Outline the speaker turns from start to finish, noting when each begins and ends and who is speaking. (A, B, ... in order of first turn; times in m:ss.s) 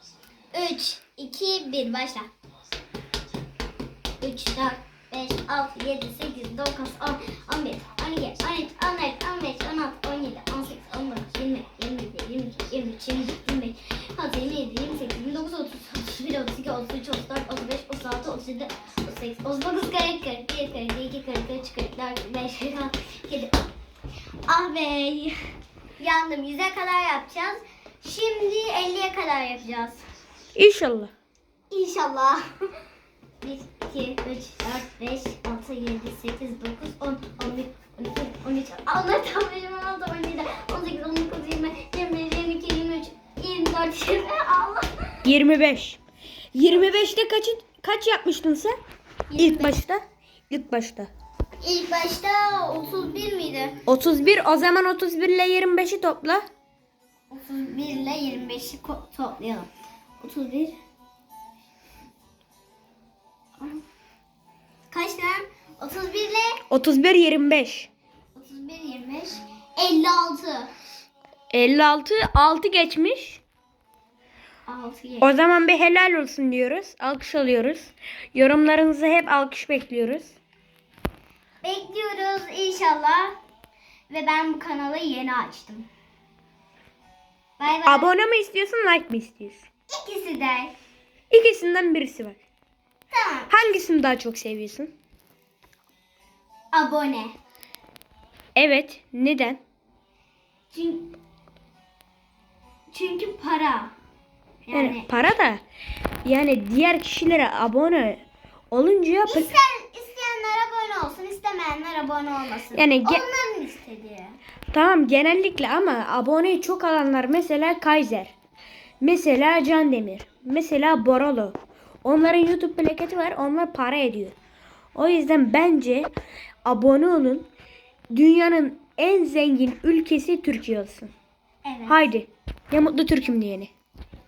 0:00.5-0:02.3 A
0:04.2-0:23.6 A
0:24.5-0:25.4 A
0:26.0-0:30.0 A
0:30.6-0:31.1 B
0:31.7-0:32.4 A
0:33.4-0:45.2 A
0:45.2-0:46.0 B
0:46.5-0:48.8 B
0:49.3-0:49.8 A
0:49.4-0:51.1 B
0:51.6-0:53.8 A
0:53.9-0:56.4 B
0:57.3-0:59.7 A
1:00.2-1:00.8 A
1:04.9-1:06.6 A
1:06.7-1:07.9 B
1:08.4-1:10.7 A
1:11.5-1:13.4 B
1:14.7-1:15.4 A
1:15.2-1:20.4 B
1:21.6-1:23.3 A
1:24.1-1:25.9 A
1:27.6-1:28.1 A
1:27.9-1:29.6 B
1:29.9-1:30.7 A
1:31.3-1:32.4 B
1:33.1-1:33.5 A
1:33.5-1:34.9 B
1:36.7-1:37.3 A
1:38.6-1:39.6 B
1:40.7-1:41.1 A
1:42.9-1:43.9 A
1:44.6-1:45.2 A
1:44.7-1:45.6 B
1:46.2-1:49.5 B
1:49.3-1:54.4 A
1:52.7-1:53.2 B
1:54.7-1:58.3 B
1:59.0-2:04.4 B
2:05.0-2:06.1 B
2:06.6-2:07.5 B
2:08.1-2:11.1 B
2:11.6-2:12.1 A
2:11.9-2:13.7 B